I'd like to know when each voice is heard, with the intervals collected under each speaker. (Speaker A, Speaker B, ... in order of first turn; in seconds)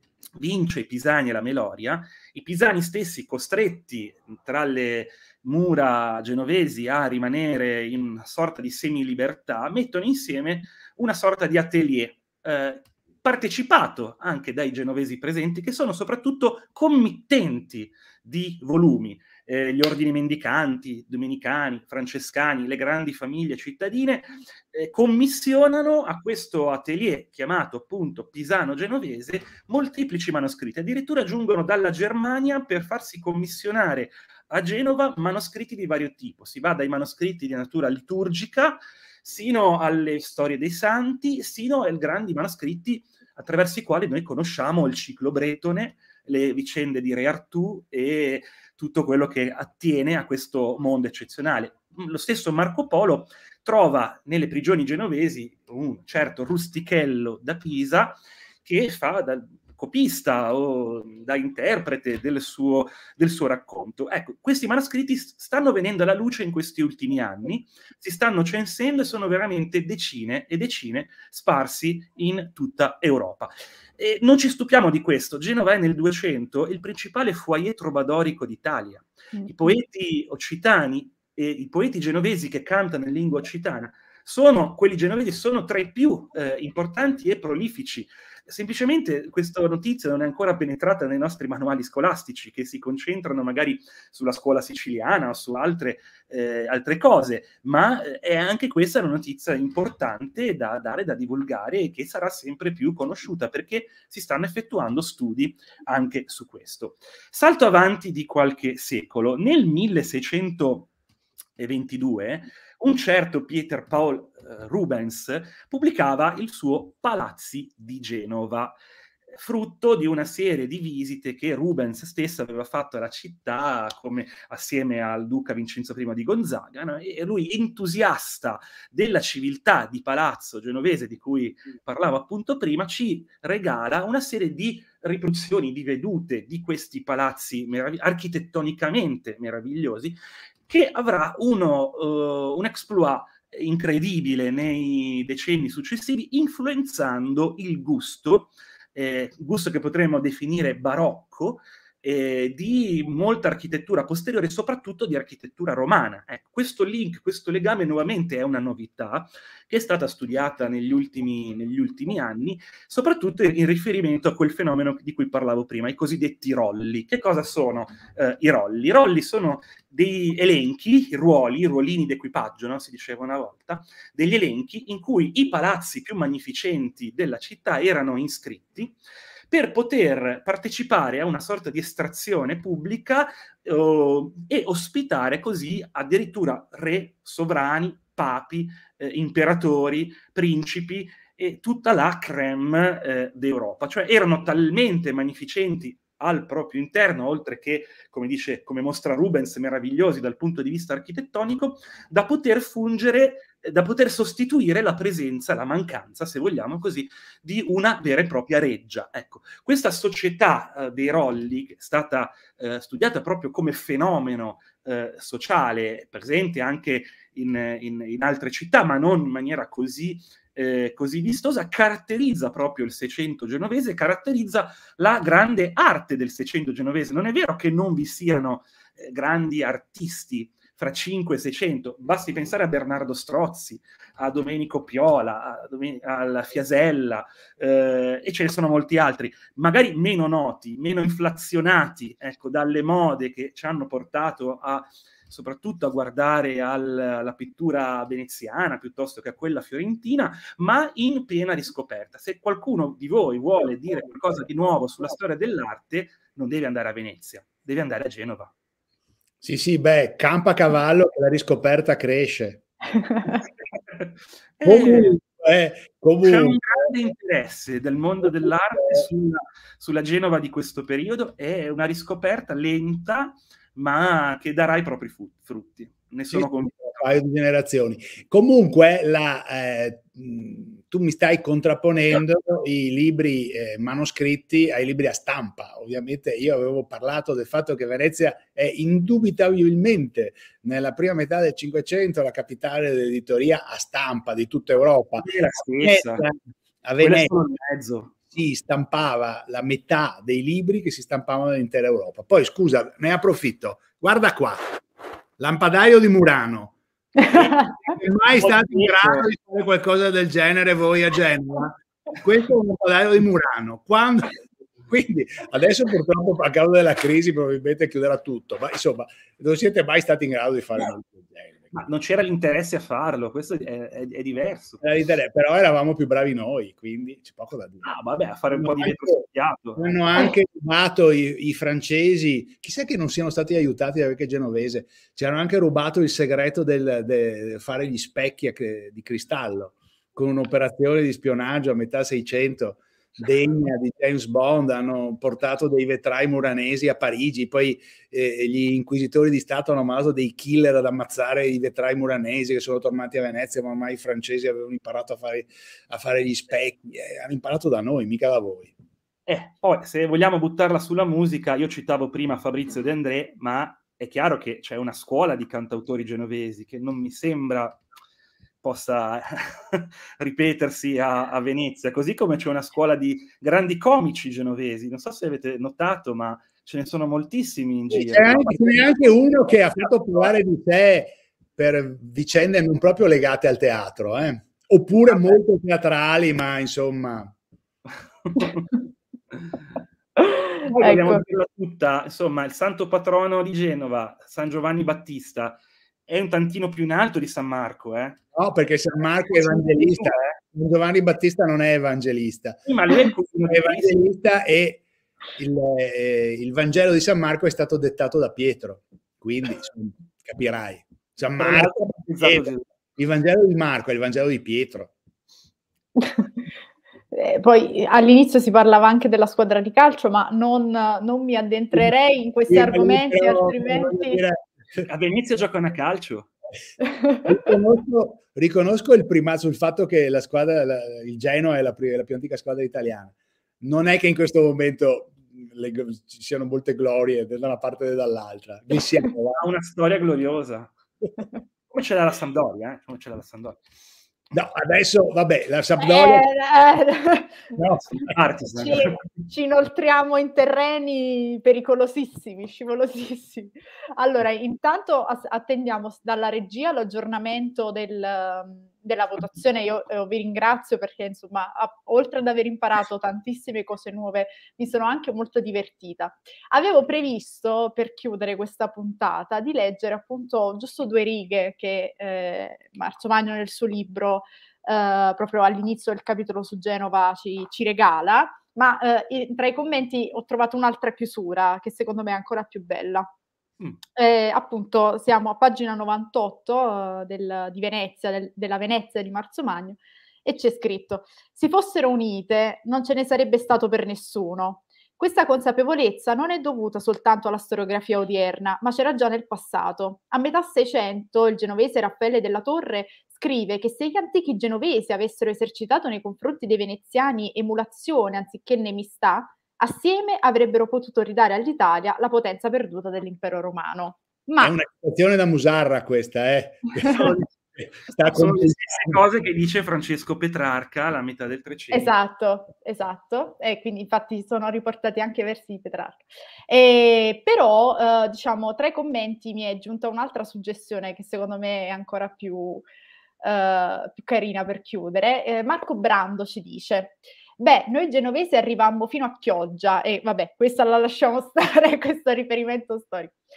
Speaker A: 0.3-110.9, 111.6-118.8, 119.3-140.2, 140.7-178.9, 179.5-258.5, 263.9-265.2, 266.2-277.1, 295.2-296.2, 297.0-298.1, 308.4-309.3, 321.7-324.8, 327.8-330.3, 359.3-367.8, 368.6-378.9, 388.2-388.6, 390.6-398.2, 399.4-400.4, 402.6-404.0, 411.4-412.6, 424.8-426.3, 439.4-440.7, 441.7-443.6, 448.0-449.0, 518.0-521.9
Speaker B: 79.3-79.8, 262.9-263.4, 307.1-307.9, 390.2-391.2, 416.0-416.3, 417.1-424.2, 426.8-427.2, 445.8-447.5, 448.6-483.1, 483.9-514.6, 521.7-532.6, 533.2-543.2
Speaker C: 259.4-262.6, 264.6-266.6, 268.8-269.0, 276.3-295.3, 295.8-297.4, 298.3-304.7, 305.4-306.8, 307.3-321.7, 324.8-327.9, 328.5-329.2, 329.8-358.7, 377.9-387.3, 398.3-402.6, 403.5-404.8, 405.4-414.9, 422.5-424.8, 427.2-439.4, 444.3-446.3, 447.5-448.8, 514.4-519.0